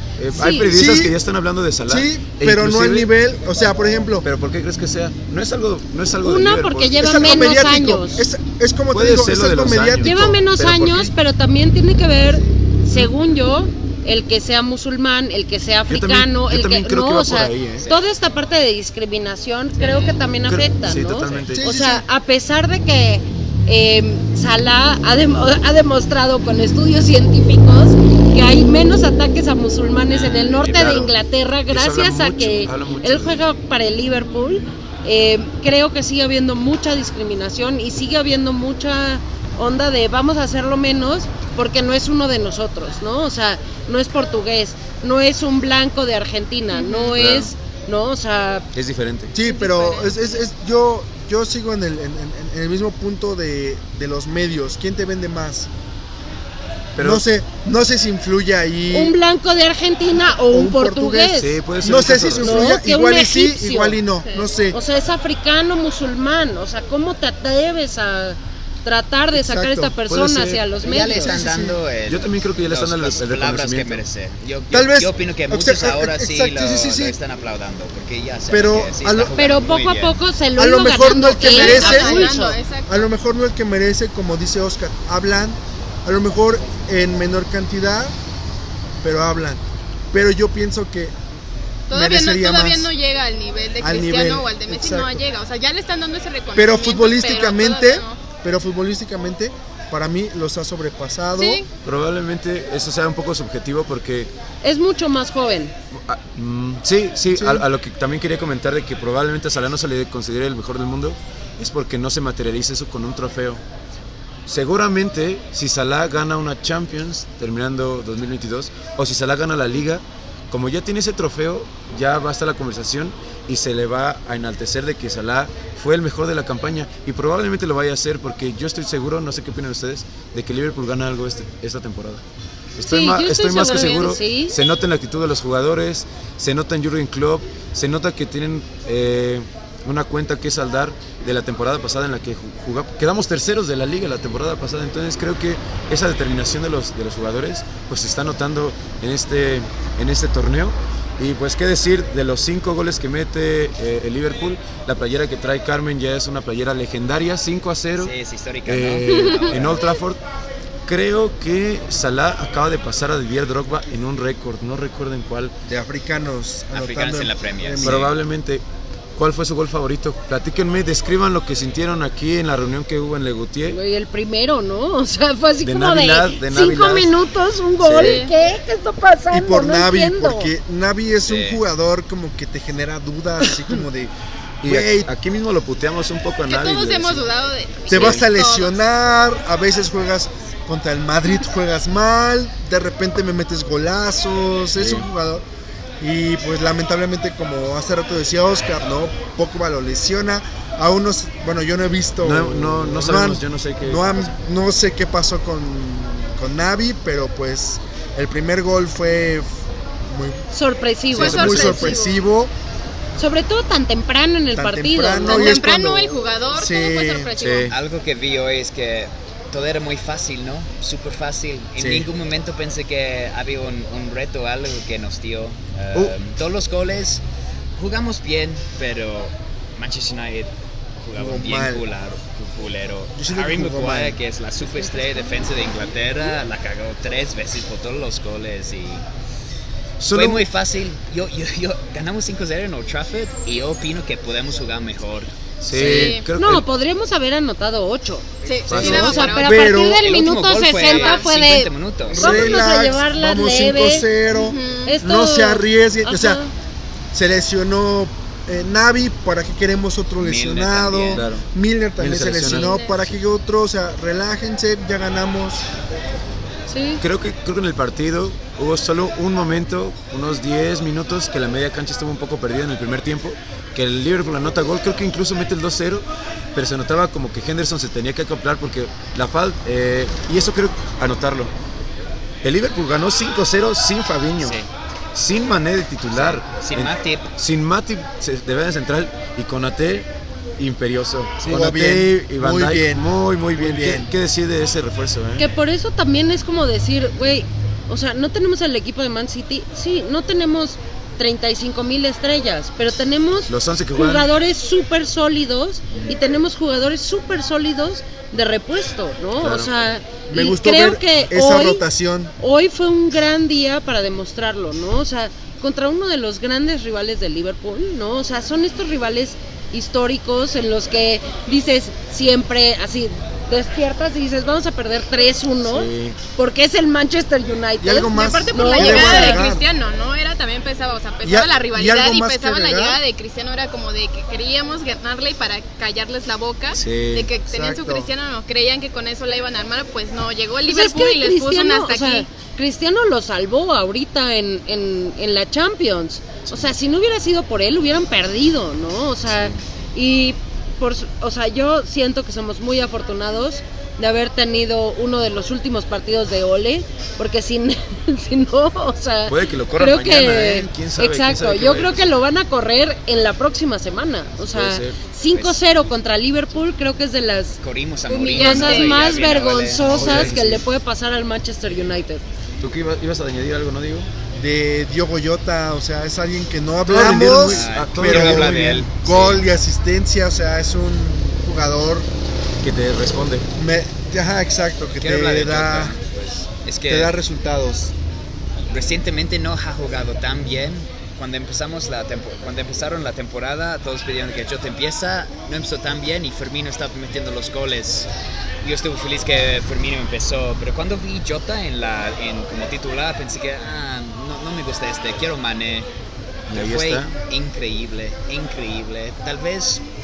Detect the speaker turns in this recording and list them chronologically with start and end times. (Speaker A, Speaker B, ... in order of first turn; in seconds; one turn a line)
Speaker A: 0.2-3.1
Speaker B: 0.3-0.7
Speaker C: 0.5-1.1
Speaker C: 1.9-4.2
Speaker A: 4.2-7.8
Speaker B: 6.2-8.2
Speaker C: 7.0-10.4
Speaker A: 8.9-11.1
Speaker B: 10.0-48.6
Speaker C: 12.8-13.1
Speaker A: 15.9-17.8
Speaker D: 17.8-18.0
Speaker D: 19.8-20.1
Speaker A: 20.4-21.7
Speaker C: 21.5-22.0
Speaker A: 30.1-31.1
Speaker A: 31.7-33.4
Speaker E: 46.7-47.1
Speaker A: 47.1-47.5
Speaker A: 48.7-49.3
Speaker C: 49.3-55.7
Speaker E: 49.4-50.2
Speaker A: 57.0-57.2
Speaker C: 57.0-59.1
Speaker B: 58.9-61.6
Speaker C: 60.5-64.8
Speaker A: 61.3-62.8
Speaker B: 62.4-64.0
Speaker B: 64.7-71.4
Speaker C: 69.3-70.0
Speaker A: 70.0-70.6
Speaker D: 70.8-80.2
Speaker C: 71.2-71.8
Speaker A: 72.1-74.0
Speaker C: 74.7-77.2
Speaker C: 78.5-79.4
Speaker B: 79.4-82.6
Speaker C: 80.6-88.1
Speaker E: 81.3-83.0
Speaker C: 89.0-91.2
Speaker E: 91.9-98.2
Speaker C: 91.9-92.9
Speaker C: 93.8-95.2
Speaker C: 96.5-101.6
Speaker E: 101.3-101.7
Speaker A: 101.8-104.3
Speaker B: 104.6-105.7
Speaker A: 105.9-113.6
Speaker C: 107.3-107.6
Speaker A: 114.5-132.2
Speaker A: 132.8-158.1
Speaker B: 132.9-134.5
Speaker D: 158.0-159.8
Speaker A: 158.7-160.2
Speaker E: 159.2-159.7
Speaker A: 160.8-165.5
Speaker C: 165.7-168.1
Speaker D: 166.7-168.1
Speaker A: 167.8-168.6
Speaker A: 169.2-173.8
Speaker B: 173.7-180.5
Speaker A: 175.6-177.1
Speaker A: 177.8-178.2
Speaker E: 178.0-178.3
Speaker C: 179.3-184.1
Speaker D: 181.2-181.6
Speaker A: 184.6-187.3
Speaker C: 184.6-185.1
Speaker E: 186.4-188.8
Speaker C: 187.9-195.4
Speaker A: 187.9-188.2
Speaker A: 194.8-195.1
Speaker C: 196.0-210.4
Speaker A: 202.2-204.3
Speaker B: 210.5-211.9
Speaker A: 211.1-211.9
Speaker C: 211.1-212.5
Speaker E: 211.2-212.2
Speaker B: 213.2-215.6
Speaker C: 214.5-217.3
Speaker E: 215.2-217.7
Speaker A: 217.3-217.7
Speaker D: 217.7-227.2
Speaker C: 221.8-222.1
Speaker D: 227.8-239.0
Speaker C: 231.1-231.8
Speaker C: 233.2-234.2
Speaker A: 240.0-240.4
Speaker D: 240.1-246.1
Speaker A: 245.6-246.7
Speaker C: 245.7-246.2
Speaker E: 245.8-246.2
Speaker B: 246.3-254.1
Speaker E: 248.4-249.6
Speaker A: 248.7-249.2
Speaker D: 248.7-249.4
Speaker C: 248.8-250.1
Speaker D: 250.0-252.6
Speaker E: 250.7-251.3
Speaker C: 252.1-256.4
Speaker E: 254.3-255.0
Speaker B: 254.9-256.5
Speaker C: 257.1-265.6
Speaker D: 260.2-261.2
Speaker A: 261.1-261.4
Speaker A: 262.0-263.1
Speaker E: 262.4-263.0
Speaker B: 266.7-267.0
Speaker A: 267.0-281.5
Speaker A: 282.4-284.6
Speaker D: 284.4-284.7
Speaker A: 285.1-295.5
Speaker D: 286.1-287.3
Speaker C: 291.4-294.1
Speaker B: 295.4-311.8
Speaker A: 303.5-304.3
Speaker A: 309.4-309.7
Speaker C: 310.3-312.3
Speaker B: 312.4-329.4
Speaker A: 325.6-326.2
Speaker C: 327.8-329.6
Speaker E: 328.5-342.3
Speaker C: 331.2-333.0
Speaker A: 336.7-337.3
Speaker C: 337.5-338.1
Speaker B: 340.7-367.6
Speaker A: 346.4-346.7
Speaker A: 349.3-349.6
Speaker A: 359.3-362.1
Speaker A: 364.5-365.0
Speaker D: 365.3-365.6
Speaker D: 367.6-370.3
Speaker E: 368.1-369.0
Speaker B: 368.3-372.2
Speaker A: 369.8-370.6
Speaker A: 372.6-374.1
Speaker C: 374.3-382.1
Speaker A: 376.8-378.9
Speaker D: 377.0-379.5
Speaker A: 382.6-383.5
Speaker C: 383.5-385.9
Speaker D: 385.0-387.1
Speaker C: 386.9-387.9
Speaker D: 388.7-398.1
Speaker D: 398.6-405.9
Speaker A: 406.5-407.1
Speaker D: 406.5-409.8